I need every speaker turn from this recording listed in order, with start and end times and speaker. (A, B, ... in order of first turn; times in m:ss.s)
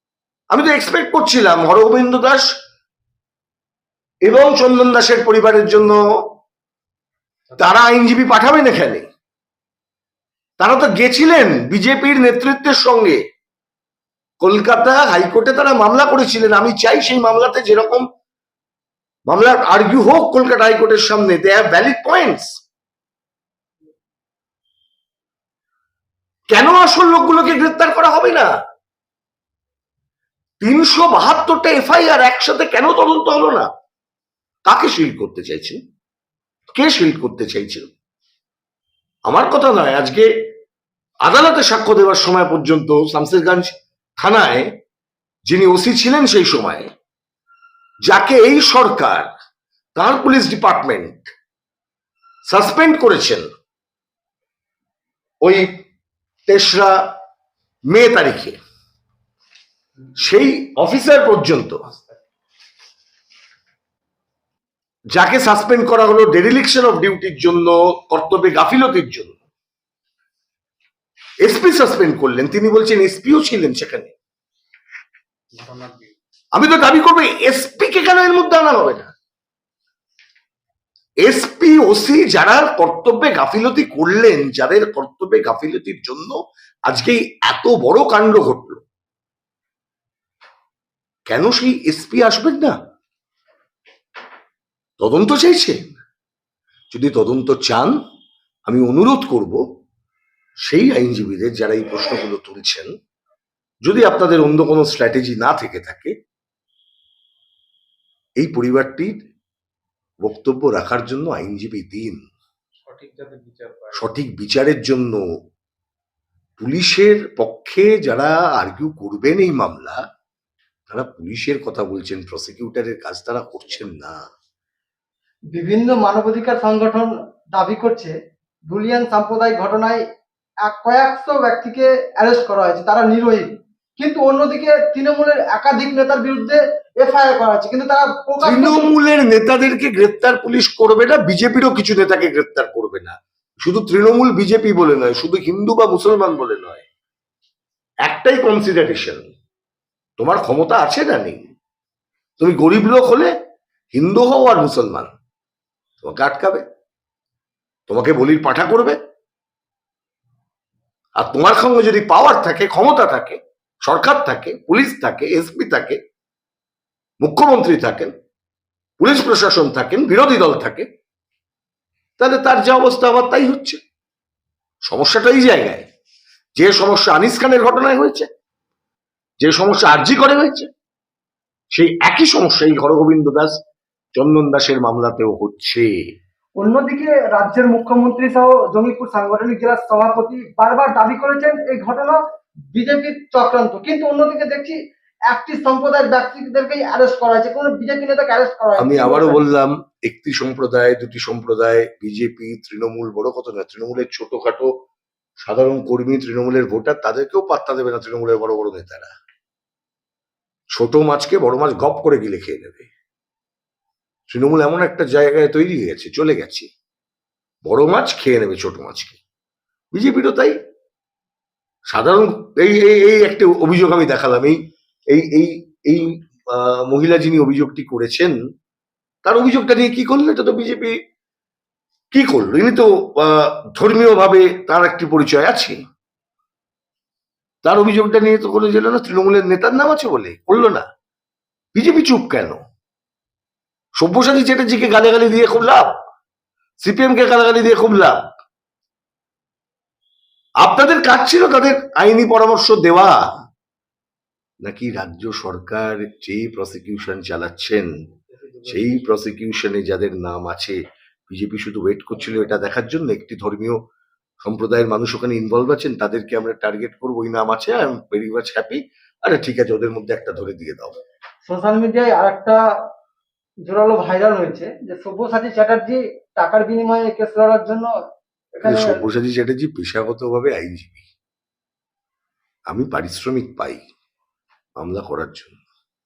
0:00.5-0:02.4 A
0:04.2-0:06.0 A
0:07.6-0:09.1 A
0:10.6-0:13.2 A
0:14.4-0:18.0 A
0:19.3-0:22.5 A
0:26.5-0:28.5 A
0:30.6-0:33.7 A
0:34.6-0:35.8 A
0:36.7-0:37.9 A
0:39.3-0:40.2 A
0:41.2-0:44.7 A
0:45.4-0:46.9 A
0:48.0-0:49.3 A
0:50.0-0:51.3 A
0:52.5-0:53.4 A
0:56.5-0:57.0 A
0:57.9-0:58.6 A
1:00.2-1:01.8 A
1:01.8-1:02.2 B
1:05.1-1:09.4 A
1:11.4-1:14.1 A
1:15.5-1:16.1 B
1:16.5-1:19.1 A
1:21.2-1:26.3 A
1:26.9-1:28.8 A
1:31.3-1:32.8 A
1:35.0-1:36.0 A
1:36.9-1:38.0 A
1:38.7-1:39.6 A
1:40.6-1:42.9 A
1:43.8-1:46.1 A
1:48.4-1:49.1 A
1:50.2-1:52.2 A
1:52.8-1:54.1 B
1:53.9-1:55.2 A
1:56.6-2:00.0 A
2:00.9-2:04.2 A
2:05.5-2:08.1 C
2:08.7-2:10.0 C
2:10.6-2:18.9 C
2:18.4-2:26.8 A
2:28.0-2:29.2 A
2:30.2-2:31.5 A
2:32.4-2:33.3 A
2:33.9-2:35.1 A
2:36.0-2:36.6 A
2:37.9-2:39.0 A
2:41.2-2:46.0 A
2:47.2-2:48.1 A
2:49.0-2:50.8 A
2:52.2-2:53.8 A
2:54.9-2:55.8 A
2:56.6-2:58.3 A
2:59.4-3:00.7 A
3:01.7-3:03.6 A
3:04.2-3:05.9 A
3:06.6-3:12.2 C
3:12.7-3:14.8 C
3:15.3-3:19.4 C
3:18.8-3:24.7 A
3:25.4-3:29.1 A
3:30.7-3:32.9 A
3:34.3-3:36.7 A
3:37.6-3:39.2 A
3:39.9-3:40.5 A
3:41.9-3:44.6 A
3:45.1-3:48.3 A
3:49.2-3:50.9 A
3:52.1-3:55.8 A
3:57.6-4:00.8 A
4:01.7-4:02.6 A
4:04.0-4:05.9 A
4:06.8-4:08.2 A
4:10.6-4:13.2 A
4:14.6-4:17.9 A
4:18.3-4:19.0 B
4:18.6-4:20.8 A
4:21.3-4:23.8 A
4:24.4-4:31.0 A
4:31.4-4:32.6 C
4:33.6-4:37.9 C
4:38.6-4:39.0 C
4:38.6-4:41.0 A
4:42.7-4:43.8 A
4:44.8-4:45.6 A